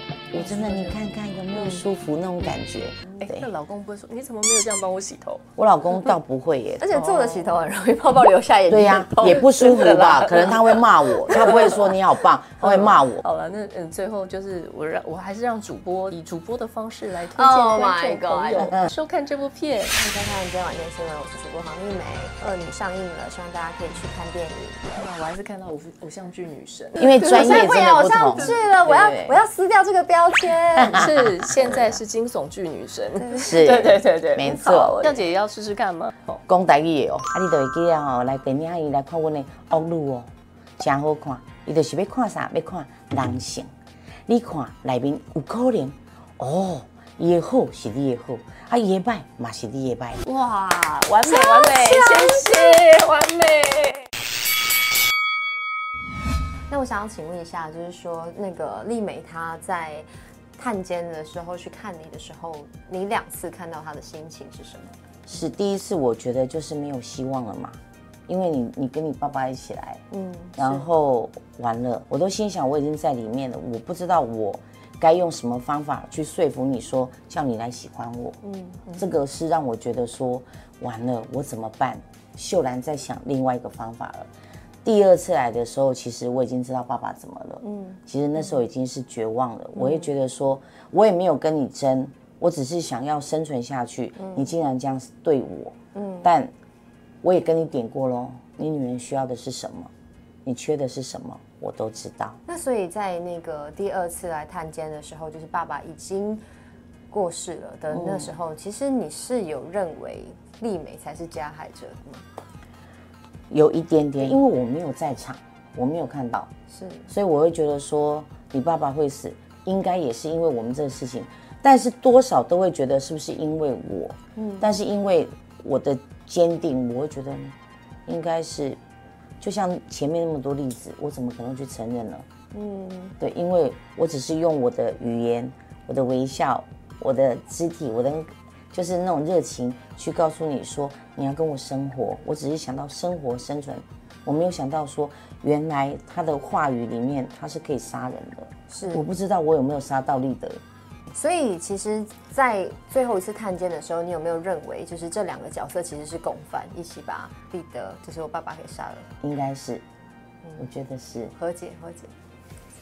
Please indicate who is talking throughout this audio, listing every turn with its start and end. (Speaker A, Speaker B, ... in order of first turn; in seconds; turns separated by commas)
Speaker A: 0.3-3.5, Speaker B: 0.4-1.0, Speaker B: 1.5-1.8, Speaker B: 3.2-5.4, Speaker A: 5.6-6.9, Speaker C: 6.8-9.5, Speaker B: 6.9-7.5, Speaker A: 8.7-13.2, Speaker B: 9.3-12.0, Speaker B: 12.6-20.0, Speaker C: 17.3-18.8, Speaker C: 19.9-25.1, Speaker B: 25.0-29.0, Speaker A: 27.0-29.4, Speaker C: 27.1-31.1, Speaker B: 30.9-36.4, Speaker A: 30.9-31.9, Speaker C: 33.2-33.8, Speaker A: 33.4-35.1, Speaker A: 36.5-43.7, Speaker A: 44.3-50.2, Speaker B: 50.2-54.1, Speaker C: 51.2-52.8, Speaker C: 56.7-65.0, Speaker A: 65.3-70.0, Speaker C: 70.1-70.9, Speaker A: 70.6-78.4, Speaker C: 78.4-78.9, Speaker A: 78.9-84.3, Speaker A: 84.8-96.5, Speaker C: 87.6-88.0, Speaker C: 89.8-90.1, Speaker C: 94.2-94.6, Speaker C: 96.0-96.3, Speaker A: 97.2-99.9, Speaker A: 100.5-102.4, Speaker C: 102.5-106.4, Speaker C: 107.1-112.3, Speaker A: 107.9-108.3, Speaker A: 113.5-116.5, Speaker C: 116.7-117.1, Speaker A: 117.1-127.5, Speaker C: 124.4-124.7, Speaker A: 128.1-128.8, Speaker A: 129.4-132.2, Speaker C: 132.5-133.2, Speaker A: 133.2-150.6, Speaker C: 148.7-149.1, Speaker C: 151.1-159.1, Speaker A: 159.2-159.8, Speaker A: 160.6-161.3, Speaker C: 161.3-162.1